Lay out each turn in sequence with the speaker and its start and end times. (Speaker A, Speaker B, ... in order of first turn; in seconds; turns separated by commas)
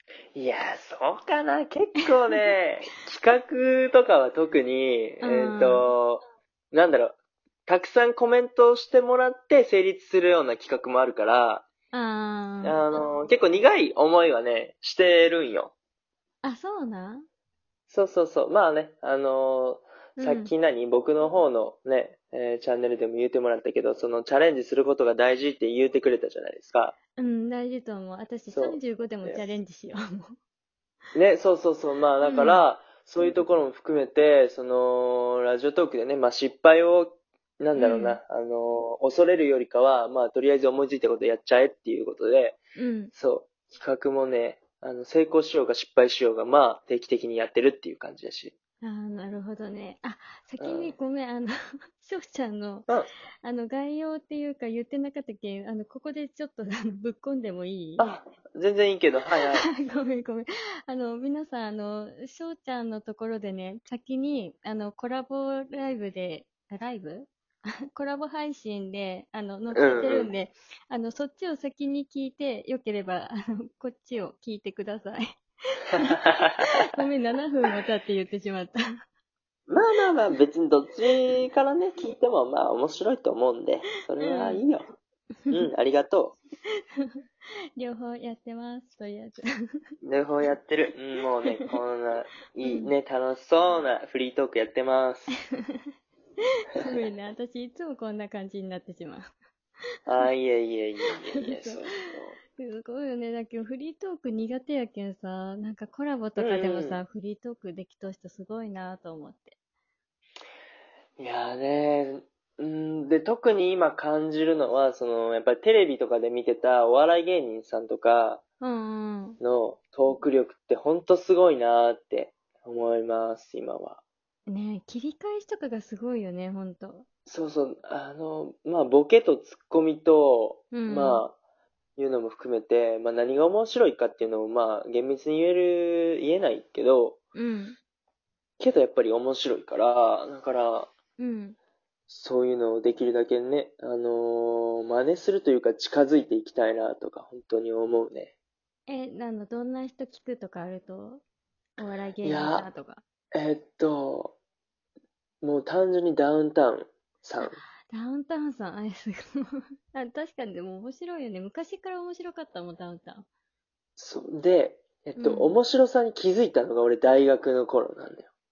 Speaker A: 0.3-11.7, Speaker B: 5.2-5.8, Speaker B: 11.9-12.8, Speaker A: 12.6-15.7, Speaker B: 16.4-17.3, Speaker A: 17.9-27.0, Speaker B: 20.2-20.5, Speaker B: 27.2-30.4, Speaker A: 28.5-29.5, Speaker A: 31.1-42.6, Speaker B: 32.2-32.6, Speaker B: 37.8-38.2, Speaker B: 42.8-43.1, Speaker A: 43.1-48.5, Speaker B: 48.8-52.9, Speaker A: 50.6-51.0, Speaker B: 53.4-58.1, Speaker A: 58.0-59.7, Speaker B: 59.4-67.3, Speaker B: 68.0-78.8, Speaker A: 69.7-70.3, Speaker A: 75.9-77.0, Speaker A: 79.7-84.9, Speaker B: 84.2-84.6, Speaker A: 85.5-86.4, Speaker B: 87.8-89.5, Speaker A: 90.0-95.3, Speaker B: 92.6-92.9, Speaker B: 96.7-99.3, Speaker A: 100.1-102.4, Speaker B: 101.3-101.8, Speaker B: 102.6-109.6, Speaker A: 106.4-107.0, Speaker A: 111.2-118.4, Speaker B: 118.6-119.4, Speaker A: 119.4-124.0, Speaker B: 124.5-127.1, Speaker A: 127.3-131.4, Speaker B: 130.7-131.2, Speaker A: 132.0-137.2, Speaker B: 137.3-137.8, Speaker A: 138.6-140.9, Speaker B: 141.2-141.6, Speaker A: 142.1-148.3, Speaker B: 148.9-151.2, Speaker B: 151.8-153.0, Speaker A: 152.2-152.7, Speaker A: 153.3-154.4, Speaker A: 155.4-157.6, Speaker B: 157.4-163.3, Speaker A: 164.0-168.3, Speaker B: 165.2-165.6